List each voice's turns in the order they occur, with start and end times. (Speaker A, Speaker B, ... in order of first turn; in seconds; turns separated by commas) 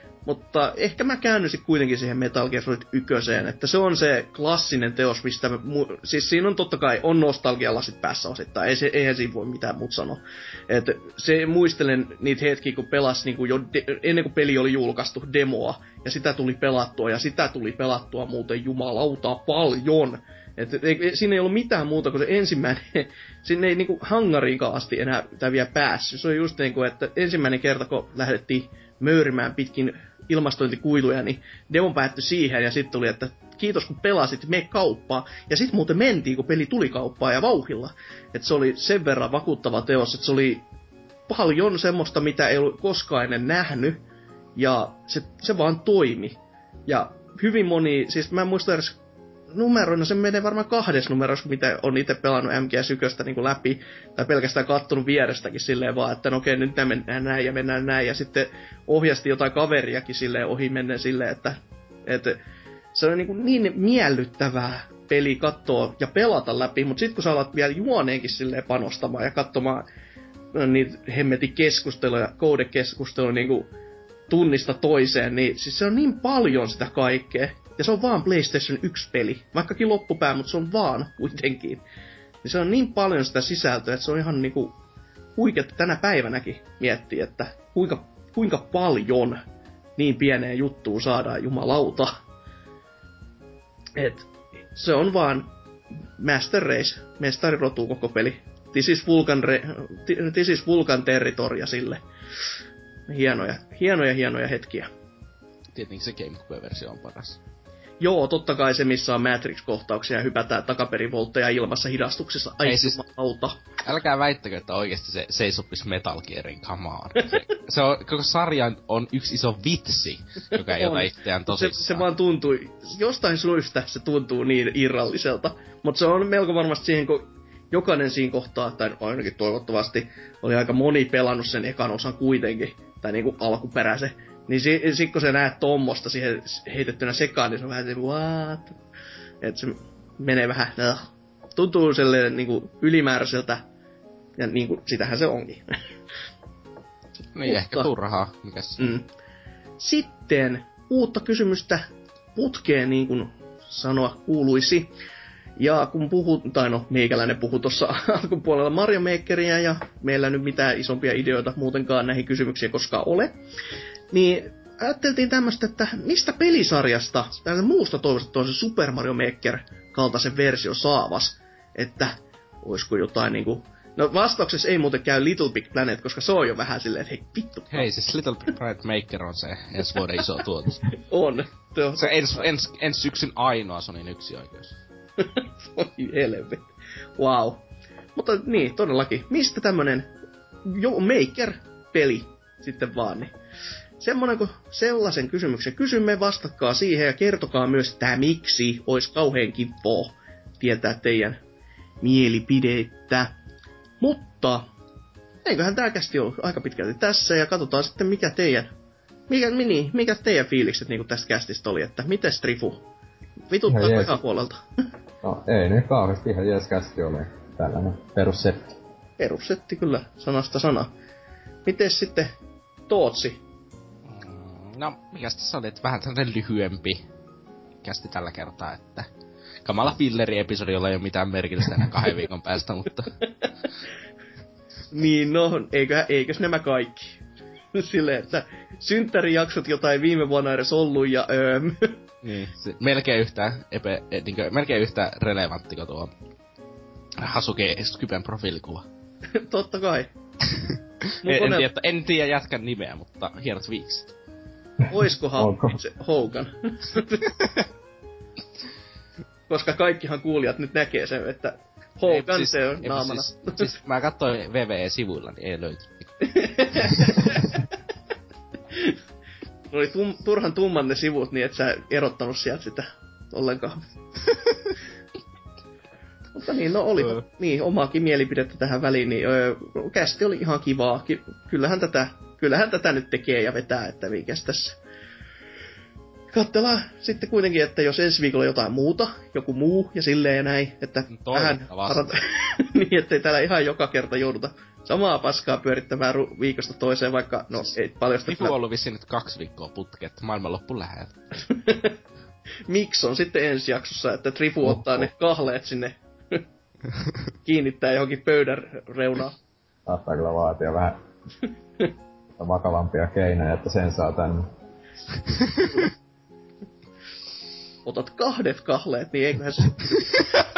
Speaker A: 0.2-40.6, Speaker A: 41.3-44.0, Speaker A: 44.6-49.0, Speaker A: 49.5-62.4, Speaker A: 62.9-69.8, Speaker A: 70.5-73.7, Speaker A: 74.3-81.8, Speaker A: 82.4-84.8, Speaker A: 85.4-89.4, Speaker A: 90.0-92.2, Speaker A: 94.0-102.0, Speaker A: 103.1-104.9, Speaker B: 105.7-107.4, Speaker A: 108.0-113.6, Speaker B: 112.7-113.0, Speaker B: 113.8-122.1, Speaker A: 120.6-138.8, Speaker A: 139.4-143.6, Speaker A: 144.4-145.8, Speaker B: 147.3-149.0, Speaker A: 147.4-147.9, Speaker A: 148.8-149.1, Speaker A: 149.8-154.9, Speaker A: 155.6-163.4, Speaker A: 164.1-177.9, Speaker B: 177.7-180.9, Speaker A: 180.9-182.4, Speaker B: 182.0-184.8, Speaker A: 185.2-187.6, Speaker A: 188.2-190.1, Speaker A: 190.7-193.3, Speaker A: 194.0-201.4, Speaker A: 202.0-203.3, Speaker A: 204.0-204.7, Speaker A: 205.4-208.7, Speaker A: 209.3-212.8, Speaker A: 213.5-214.6, Speaker C: 213.7-214.2, Speaker C: 215.2-218.8, Speaker A: 219.2-220.9, Speaker A: 221.7-222.3, Speaker A: 222.9-223.4, Speaker B: 224.1-227.0, Speaker B: 227.8-229.1, Speaker B: 229.7-233.2, Speaker A: 234.9-237.2, Speaker A: 237.7-242.0, Speaker B: 242.2-246.1, Speaker B: 247.2-248.9, Speaker A: 249.3-250.1, Speaker A: 251.2-251.7, Speaker B: 251.2-254.1, Speaker A: 254.9-257.3, Speaker C: 255.4-255.8, Speaker A: 259.5-263.6, Speaker B: 262.1-265.9, Speaker A: 266.2-267.6, Speaker A: 269.7-273.8, Speaker A: 276.4-284.8, Speaker A: 286.3-298.6, Speaker B: 291.1-292.1, Speaker B: 298.3-301.1, Speaker A: 301.5-302.0, Speaker A: 302.7-306.4, Speaker A: 307.4-309.4, Speaker C: 309.9-311.0, Speaker C: 312.4-314.5, Speaker A: 317.9-320.2